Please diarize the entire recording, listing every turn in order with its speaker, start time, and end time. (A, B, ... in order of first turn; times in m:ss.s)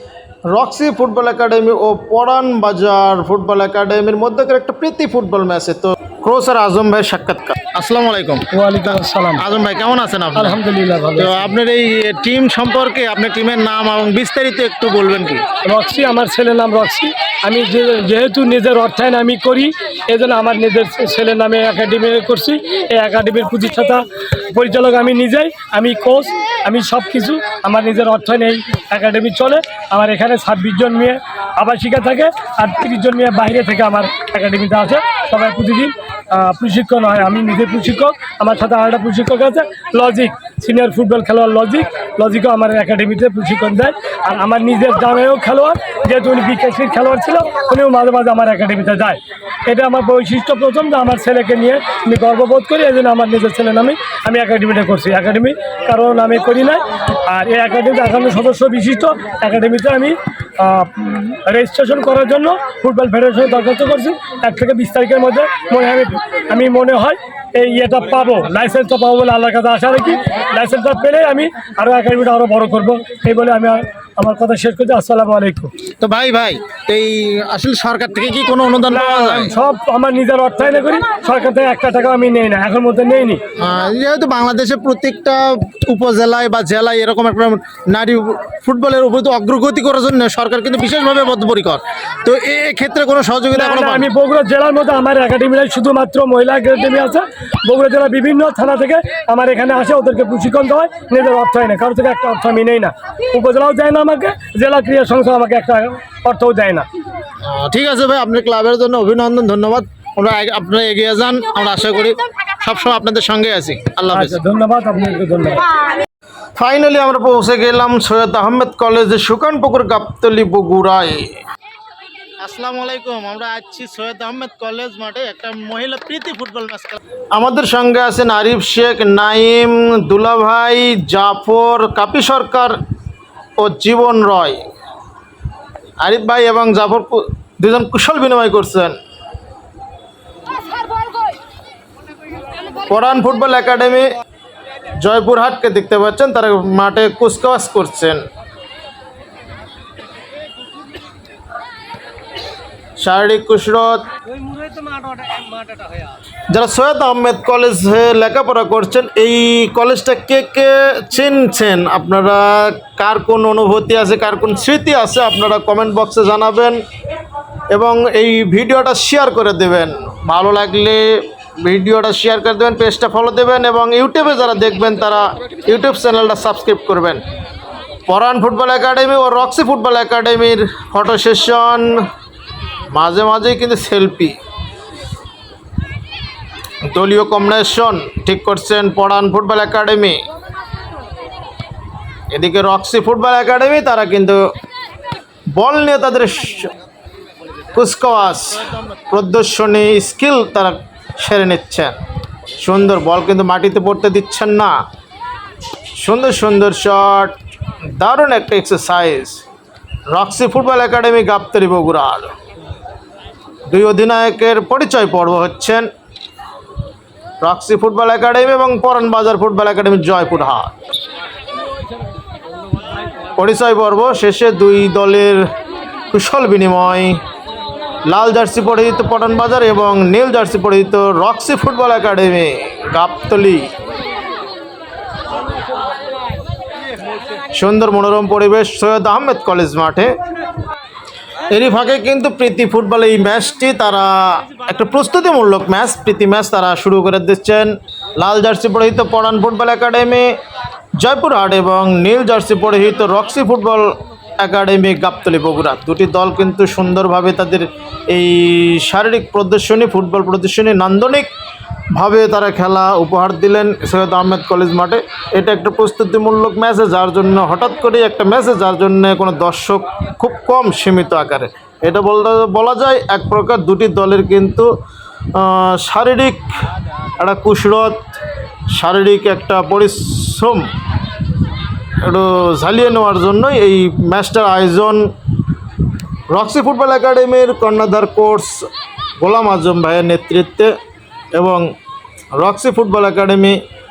0:00.5-0:10.6 A
0:08.5-0:09.4 B
0:10.3-0:11.5 B
0:11.2-0:15.4 A
0:15.6-1:15.7 B
1:16.0-1:19.5 A
1:18.9-1:23.4 B
1:23.6-1:34.1 A
1:33.5-1:46.9 B
1:47.4-1:54.4 A
1:54.1-1:55.8 B
1:56.6-2:01.4 A
2:02.4-2:12.8 A
2:13.6-2:14.6 A
2:16.0-2:19.0 A
2:22.9-2:24.1 A
2:25.0-2:28.2 A
2:33.0-2:34.1 A
2:34.4-2:35.8 B
2:36.5-2:46.8 A
2:47.7-2:57.2 A
2:58.1-3:02.0 A
3:02.9-3:04.4 A
3:06.8-3:10.2 A
3:12.3-3:14.4 A
3:15.6-3:16.7 A
3:17.7-3:22.0 A
3:22.6-3:24.7 A
3:26.0-3:27.4 A
3:28.0-3:29.4 A
3:30.1-3:32.3 A
3:33.7-3:35.9 A
3:37.4-3:40.7 A
3:43.4-3:45.5 A
3:46.1-3:47.2 A
3:48.1-3:53.7 A
3:57.5-4:00.1 A
4:01.5-4:10.4 A
4:11.0-4:21.3 A
4:21.9-4:34.7 A
4:35.3-4:36.5 A
4:37.2-4:38.2 A
4:38.7-4:40.7 A
4:42.0-4:45.1 A
4:46.3-4:48.6 A
4:49.2-4:50.7 A
4:51.4-4:51.7 A
4:52.3-4:53.6 A